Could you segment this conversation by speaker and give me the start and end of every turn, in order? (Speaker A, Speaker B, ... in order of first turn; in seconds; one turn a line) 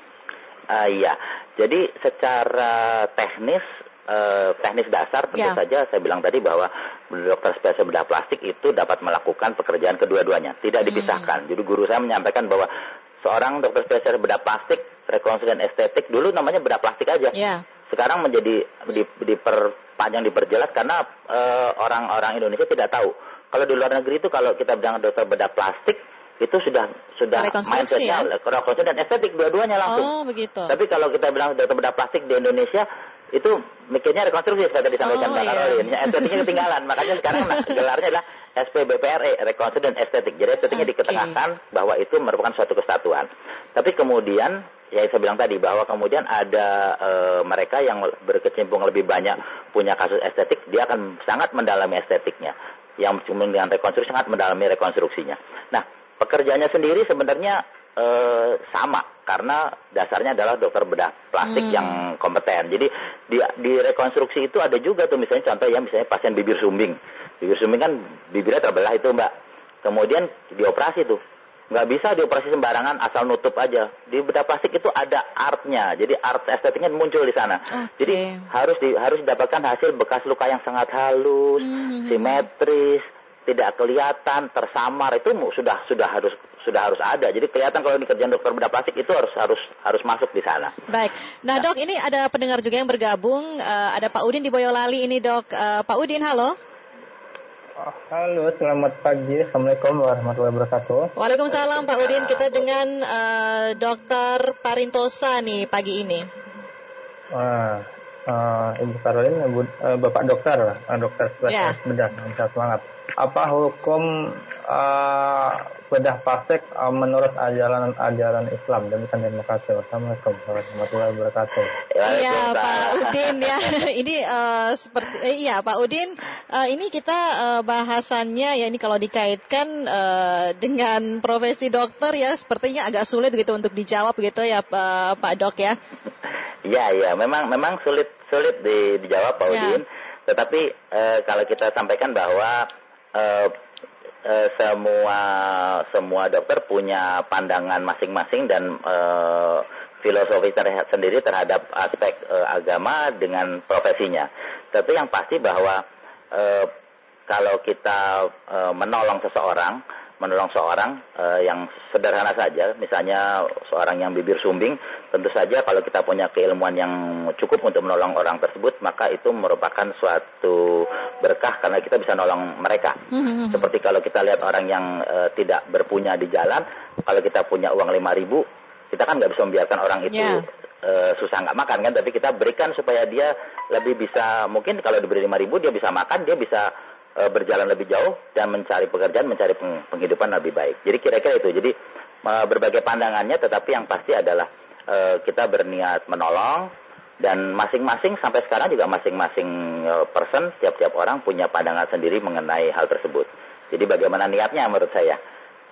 Speaker A: 0.7-12.7
Speaker B: 10.9-11.3
Speaker A: 13.2-17.4
Speaker B: 17.3-17.6
Speaker A: 17.9-30.1
Speaker B: 27.4-28.3
Speaker B: 29.9-30.8
Speaker A: 30.7-69.3
Speaker B: 35.0-36.4
Speaker B: 40.8-41.3
Speaker A: 69.8-71.2
Speaker A: 71.7-90.7
Speaker B: 77.7-78.5
Speaker B: 81.6-82.4
Speaker B: 90.9-96.6
Speaker C: 97.8-101.1
Speaker B: 101.2-106.3
Speaker C: 107.3-114.1
Speaker B: 111.5-111.8
Speaker C: 114.7-121.7
Speaker A: 122.0-123.7
Speaker B: 122.0-135.8
Speaker A: 136.7-142.7
Speaker B: 139.5-139.8
Speaker A: 143.2-143.5
Speaker A: 144.2-156.7
Speaker A: 157.3-173.0
Speaker B: 173.1-173.7
Speaker A: 173.5-191.7
Speaker B: 180.1-180.4
Speaker A: 192.2-196.7
Speaker A: 197.2-205.2